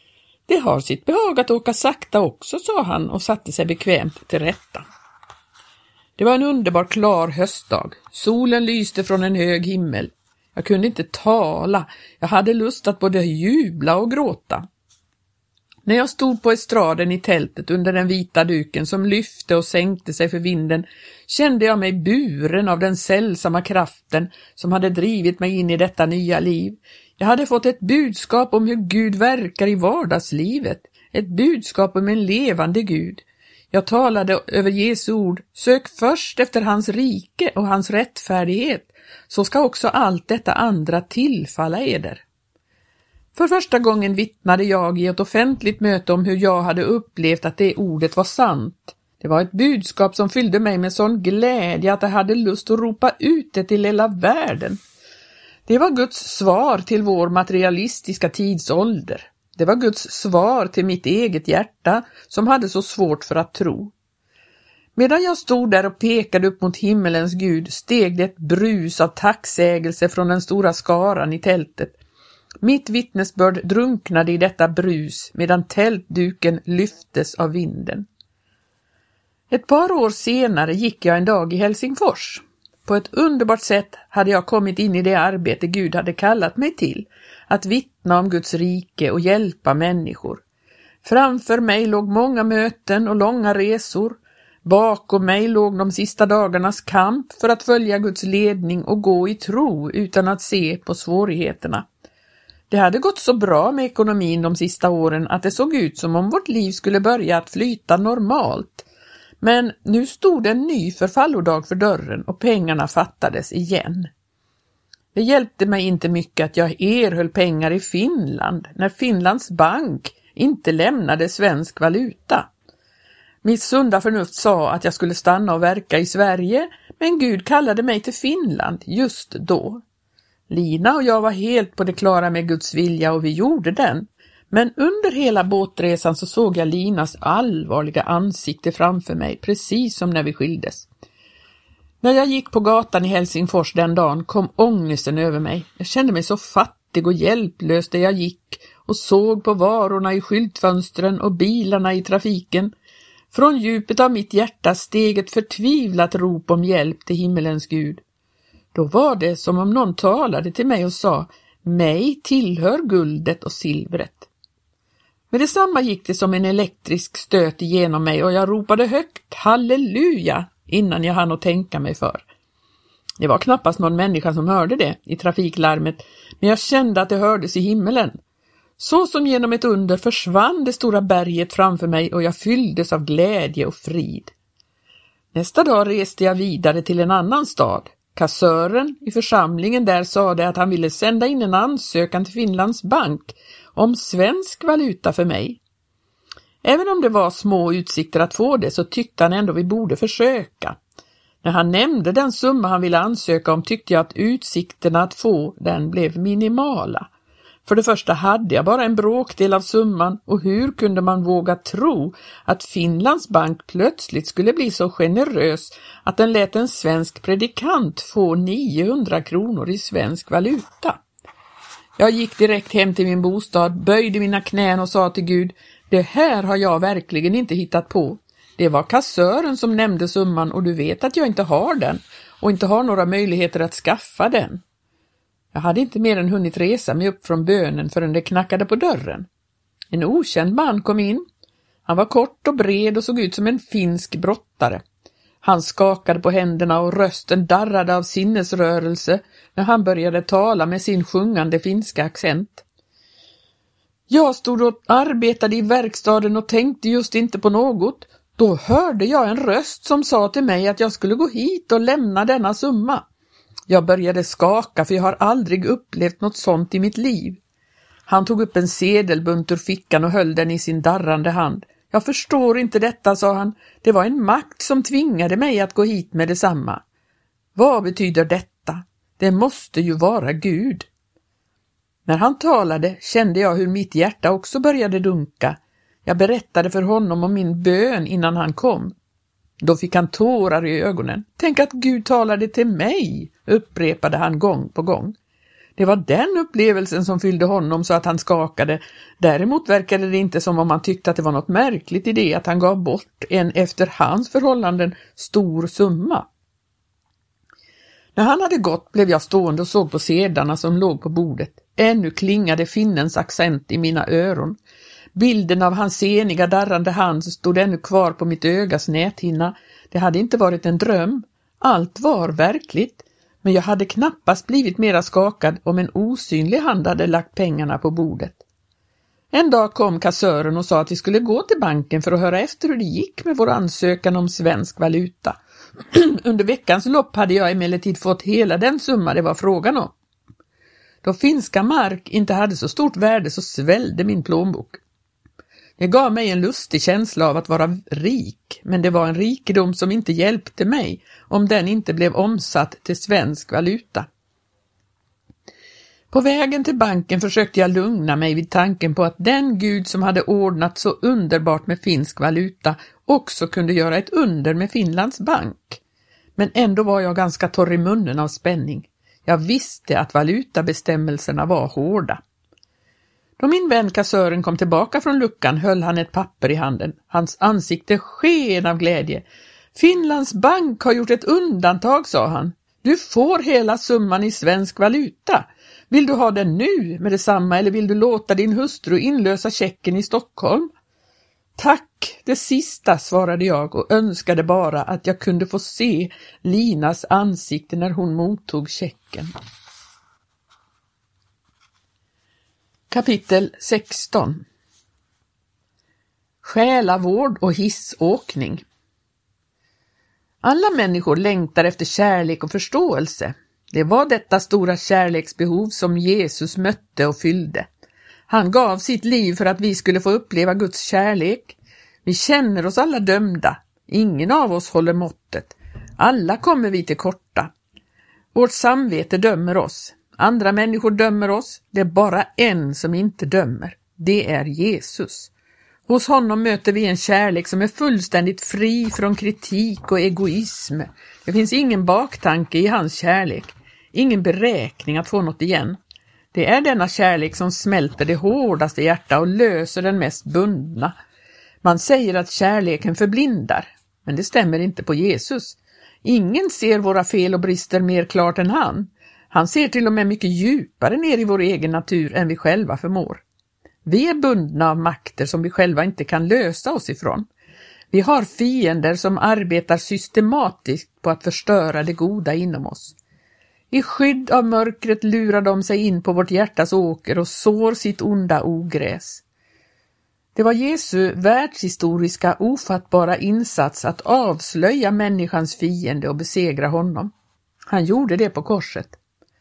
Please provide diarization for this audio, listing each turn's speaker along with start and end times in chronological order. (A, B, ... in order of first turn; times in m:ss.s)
0:00.5-0:04.9 A
0:06.2-0:14.6 A
0:15.9-0:42.2 A
0:43.4-0:54.8 A
0:55.7-1:03.9 A
1:05.0-1:12.0 A
1:12.6-1:18.1 A
1:19.5-1:30.4 A
1:31.0-1:41.9 A
1:42.7-1:48.9 A
1:49.4-1:54.1 A
1:55.1-2:02.5 A
2:03.4-2:09.8 A
2:10.5-2:20.9 A
2:22.0-2:32.7 A
2:33.3-2:38.0 A
2:38.7-2:44.3 A
2:45.3-2:52.2 A
2:53.2-2:58.2 A
2:58.8-3:04.3 A
3:05.3-3:15.6 A
3:16.6-3:20.8 A
3:21.4-3:27.1 A
3:27.6-3:41.0 A
3:42.0-3:54.6 A
3:55.5-3:59.3 A
3:59.9-4:01.2 A
4:01.9-4:04.8 A
4:05.4-4:12.6 A
4:14.1-4:23.0 A
4:23.7-4:27.4 A
4:28.1-4:36.8 A
4:37.6-4:40.9 A
4:42.1-4:48.9 A
4:49.6-4:55.2 A
4:55.8-5:06.3 A
5:08.2-5:14.6 A
5:15.2-5:28.4 A
5:29.3-5:35.4 A
5:35.9-5:39.9 A
5:41.0-5:44.8 A
5:45.8-5:54.1 A
5:56.1-6:05.8 A
6:06.4-6:12.2 A
6:13.4-6:19.2 A
6:19.8-6:30.7 A
6:31.6-6:39.3 A
6:42.9-6:44.4 A
6:46.4-6:48.6 A
6:50.4-6:57.7 A
6:58.3-7:07.5 A
7:08.3-7:15.3 A
7:15.9-7:25.8 A
7:26.3-7:30.9 A
7:31.6-7:43.2 A
7:43.8-7:47.3 A
7:47.9-7:53.0 A
7:53.7-7:59.2 A
8:00.4-8:07.1 A
8:07.7-8:09.0 A